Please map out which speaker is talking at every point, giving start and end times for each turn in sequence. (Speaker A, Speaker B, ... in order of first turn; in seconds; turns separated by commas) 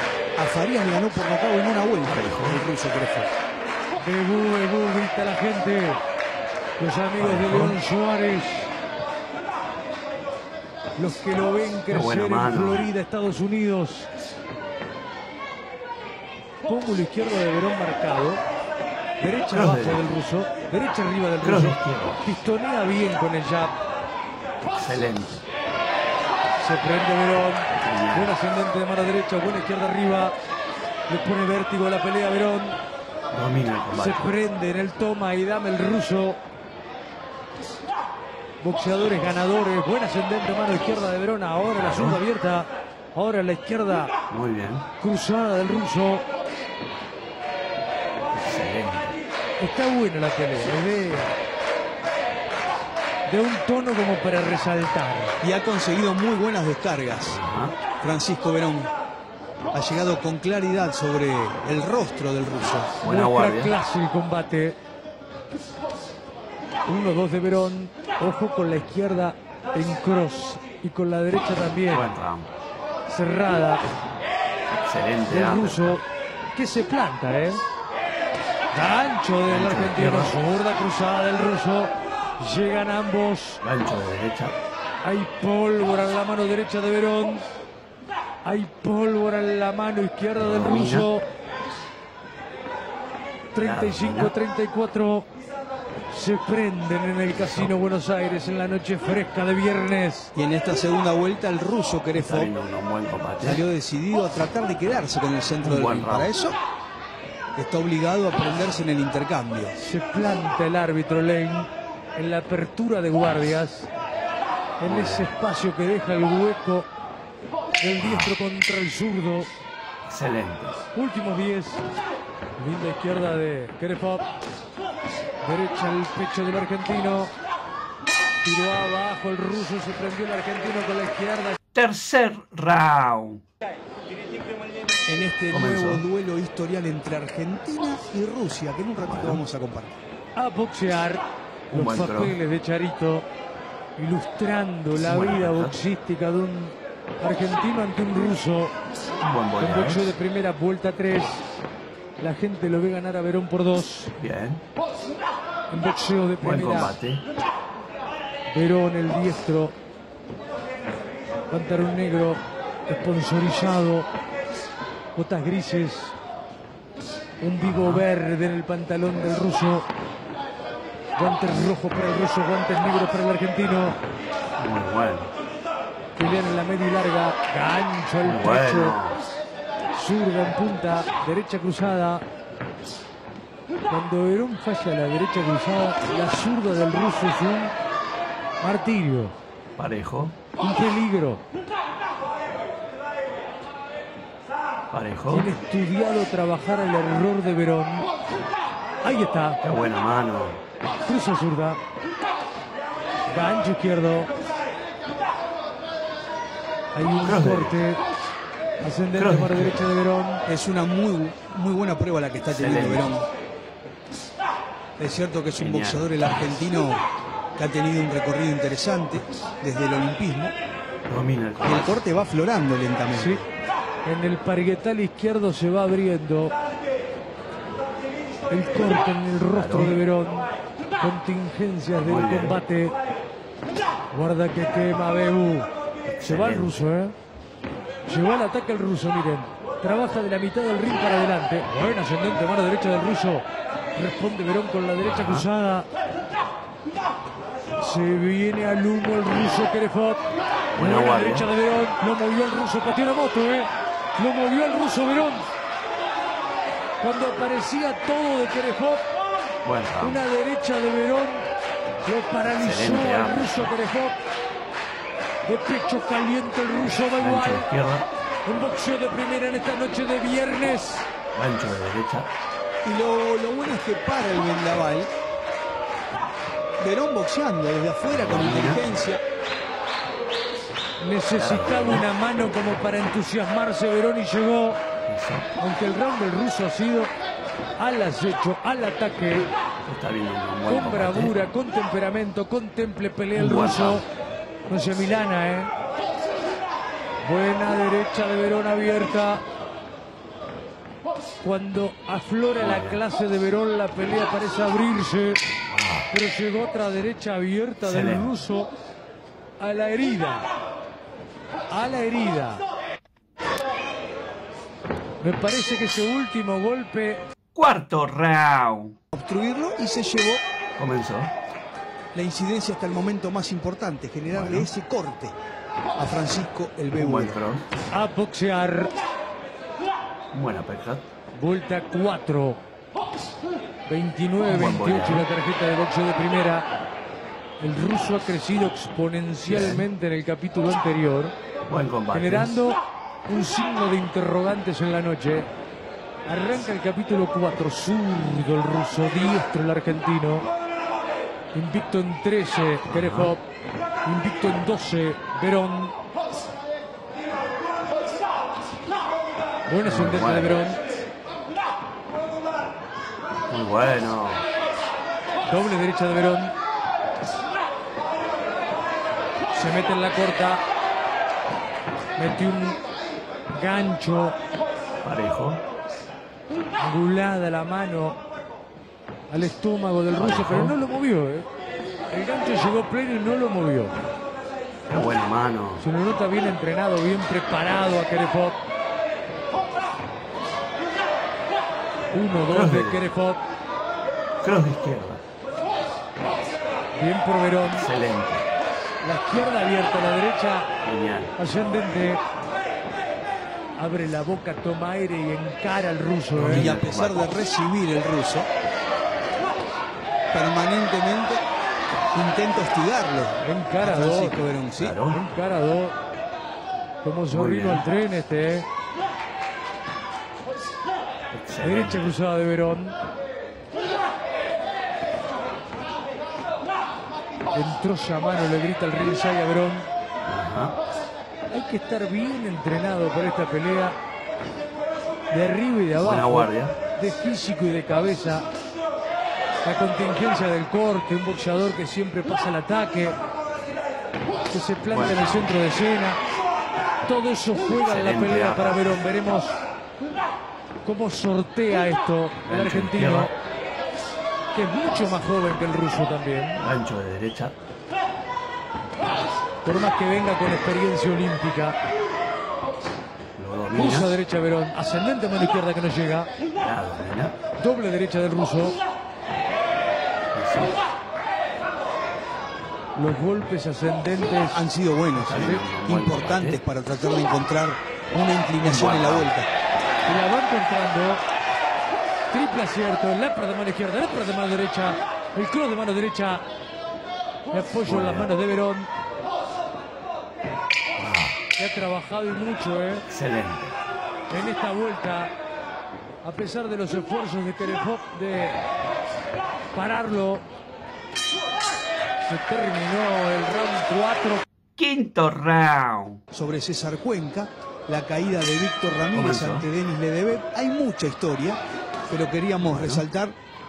Speaker A: 0.4-3.3, Speaker B: 2.1-2.6, Speaker C: 4.0-6.0, Speaker C: 6.8-8.7, Speaker B: 7.2-7.8, Speaker C: 11.0-14.1, Speaker B: 11.9-12.8, Speaker C: 16.6-18.4, Speaker C: 19.2-23.8, Speaker B: 19.5-20.1, Speaker B: 21.4-22.2, Speaker B: 24.7-25.4, Speaker C: 26.6-30.4, Speaker B: 27.8-28.3, Speaker C: 31.1-32.8, Speaker B: 33.3-34.3, Speaker C: 34.0-36.4, Speaker C: 38.6-44.1, Speaker B: 41.8-42.2, Speaker B: 44.3-44.9, Speaker C: 45.0-46.2, Speaker B: 48.3-49.2, Speaker C: 49.6-51.3, Speaker C: 53.3-55.4, Speaker A: 55.4-57.4, Speaker B: 57.2-57.8, Speaker A: 58.0-58.9, Speaker A: 59.7-63.0, Speaker B: 63.0-63.8, Speaker C: 63.0-64.8, Speaker C: 66.9-72.1, Speaker B: 71.9-72.5, Speaker C: 73.1-73.8, Speaker B: 74.7-76.0, Speaker C: 75.3-76.0, Speaker C: 76.5-77.6, Speaker C: 78.7-83.6, Speaker B: 79.5-80.3, Speaker B: 83.6-84.6, Speaker C: 85.0-87.4, Speaker C: 88.4-91.2, Speaker B: 90.4-91.1, Speaker C: 93.5-95.3, Speaker B: 93.6-94.3, Speaker C: 96.1-100.3, Speaker B: 97.4-97.7, Speaker A: 100.3-102.5, Speaker B: 102.1-103.6, Speaker A: 103.4-106.6, Speaker B: 105.6-106.3, Speaker A: 107.6-109.8, Speaker C: 109.8-113.9, Speaker C: 114.8-116.9, Speaker B: 114.8-115.3, Speaker C: 117.8-119.5, Speaker B: 118.0-118.4, Speaker B: 120.1-120.8, Speaker C: 120.9-121.8, Speaker C: 122.6-124.2, Speaker C: 125.4-127.3, Speaker C: 128.4-131.6, Speaker B: 131.7-133.4, Speaker A: 135.1-139.9, Speaker B: 135.5-136.1, Speaker B: 139.0-139.4, Speaker C: 140.4-143.3, Speaker B: 141.7-142.4, Speaker C: 144.0-148.7, Speaker B: 145.0-145.8, Speaker B: 149.2-150.1, Speaker C: 149.6-151.4, Speaker C: 152.2-154.1, Speaker B: 154.2-154.6, Speaker C: 155.7-157.0, Speaker B: 156.4-157.2, Speaker C: 158.5-159.8, Speaker C: 161.5-164.1, Speaker C: 165.2-166.2, Speaker C: 167.4-169.9, Speaker B: 167.6-168.1, Speaker C: 171.2-174.0, Speaker B: 174.6-175.3, Speaker C: 176.2-179.0, Speaker B: 178.2-179.2, Speaker C: 179.9-182.2, Speaker C: 183.9-187.8, Speaker C: 188.6-189.3, Speaker B: 189.8-190.4, Speaker C: 190.6-191.4, Speaker B: 194.9-195.5, Speaker C: 195.3-198.1, Speaker C: 199.0-199.6, Speaker B: 199.6-200.6, Speaker C: 201.1-201.8, Speaker C: 203.3-204.3, Speaker C: 206.9-208.0, Speaker B: 207.2-207.8, Speaker C: 208.8-210.4, Speaker B: 209.1-209.9, Speaker A: 210.5-213.3, Speaker B: 212.5-213.1, Speaker A: 215.0-217.0, Speaker B: 215.6-216.1, Speaker A: 217.6-220.6, Speaker B: 221.1-221.9, Speaker A: 221.6-223.4, Speaker C: 223.1-223.4, Speaker C: 224.1-226.5, Speaker C: 228.5-230.5, Speaker B: 229.5-230.0, Speaker C: 231.0-232.9, Speaker B: 232.1-232.6, Speaker C: 234.1-235.7, Speaker B: 236.2-236.8, Speaker C: 236.2-237.2, Speaker C: 238.1-245.9, Speaker B: 245.0-245.5, Speaker C: 247.8-250.2, Speaker B: 250.8-251.5, Speaker C: 250.8-255.5, Speaker C: 257.0-259.1, Speaker B: 259.6-260.3, Speaker C: 260.0-261.5, Speaker C: 262.0-264.2, Speaker B: 262.6-263.7, Speaker C: 265.5-267.7, Speaker B: 267.2-268.1, Speaker C: 268.5-271.1, Speaker B: 271.3-272.3, Speaker A: 272.8-275.1, Speaker A: 276.8-279.2, Speaker B: 278.1-278.9, Speaker C: 281.0-284.8, Speaker B: 281.3-282.1, Speaker B: 285.1-285.5, Speaker C: 285.6-287.1, Speaker C: 287.8-289.5, Speaker B: 289.8-291.4, Speaker C: 290.7-294.1, Speaker B: 293.4-294.1, Speaker C: 294.7-295.7, Speaker C: 297.2-299.4, Speaker C: 301.4-305.4, Speaker B: 302.6-303.0, Speaker B: 305.7-306.1, Speaker C: 306.1-308.7, Speaker B: 307.8-308.3, Speaker C: 309.6-310.5, Speaker C: 311.7-312.6, Speaker C: 315.2-317.2, Speaker B: 317.5-319.0, Speaker A: 319.1-320.4, Speaker B: 320.8-321.3, Speaker A: 322.1-325.4, Speaker B: 324.3-324.7, Speaker A: 326.0-327.4, Speaker B: 326.9-327.7, Speaker C: 327.9-328.9, Speaker B: 330.3-331.1, Speaker C: 331.4-332.6, Speaker C: 333.9-336.7, Speaker B: 334.5-335.3, Speaker C: 337.6-341.3, Speaker B: 339.5-339.9, Speaker B: 341.7-342.6, Speaker C: 342.1-345.5, Speaker C: 346.3-350.5, Speaker C: 351.5-353.4, Speaker B: 352.9-353.3, Speaker C: 354.1-355.9, Speaker C: 359.7-360.8, Speaker B: 359.8-360.6, Speaker B: 363.5-364.5, Speaker C: 365.5-366.5, Speaker C: 369.5-370.6, Speaker C: 372.2-372.8, Speaker C: 373.5-374.4, Speaker B: 375.0-375.6, Speaker C: 376.8-378.2, Speaker C: 379.3-381.5, Speaker B: 380.2-380.8, Speaker C: 382.1-383.9, Speaker B: 384.9-385.9, Speaker C: 385.8-388.6, Speaker C: 392.1-393.4, Speaker B: 392.5-393.0, Speaker B: 394.4-395.2, Speaker C: 397.0-397.9, Speaker B: 397.7-398.5, Speaker C: 399.0-400.7, Speaker B: 400.8-401.3, Speaker C: 401.4-402.2, Speaker C: 403.8-406.7, Speaker B: 406.3-407.3, Speaker A: 406.4-408.5, Speaker A: 410.3-411.4, Speaker A: 412.1-415.0, Speaker C: 413.4-414.4, Speaker B: 414.8-415.2, Speaker C: 415.1-416.0, Speaker C: 417.0-418.7, Speaker B: 417.3-417.8, Speaker B: 421.3-422.1, Speaker C: 421.6-423.0, Speaker C: 427.5-429.9, Speaker B: 430.2-430.8, Speaker C: 431.5-434.0, Speaker C: 435.3-438.5, Speaker B: 436.0-436.8, Speaker C: 439.6-443.2, Speaker C: 444.5-446.2, Speaker B: 444.9-445.5, Speaker C: 447.1-449.6, Speaker B: 447.8-448.9, Speaker C: 450.9-453.3, Speaker B: 452.5-453.3, Speaker C: 454.5-456.6, Speaker B: 456.6-457.6, Speaker C: 459.6-461.8, Speaker B: 463.4-464.2, Speaker C: 463.7-466.3, Speaker B: 466.6-467.4, Speaker C: 467.6-468.8, Speaker B: 470.3-470.8, Speaker C: 472.9-474.6, Speaker A: 474.5-479.5, Speaker B: 475.2-476.6, Speaker B: 478.6-479.3, Speaker C: 480.1-481.2, Speaker C: 482.3-486.5, Speaker C: 487.5-488.9, Speaker B: 487.9-488.3, Speaker B: 491.0-491.4, Speaker C: 491.6-493.1, Speaker B: 493.1-493.8, Speaker C: 494.3-495.3, Speaker C: 496.2-498.6, Speaker C: 499.7-500.4, Speaker C: 502.3-504.4, Speaker B: 504.8-506.2, Speaker A: 506.3-513.4, Speaker B: 509.1-509.7, Speaker B: 512.7-513.0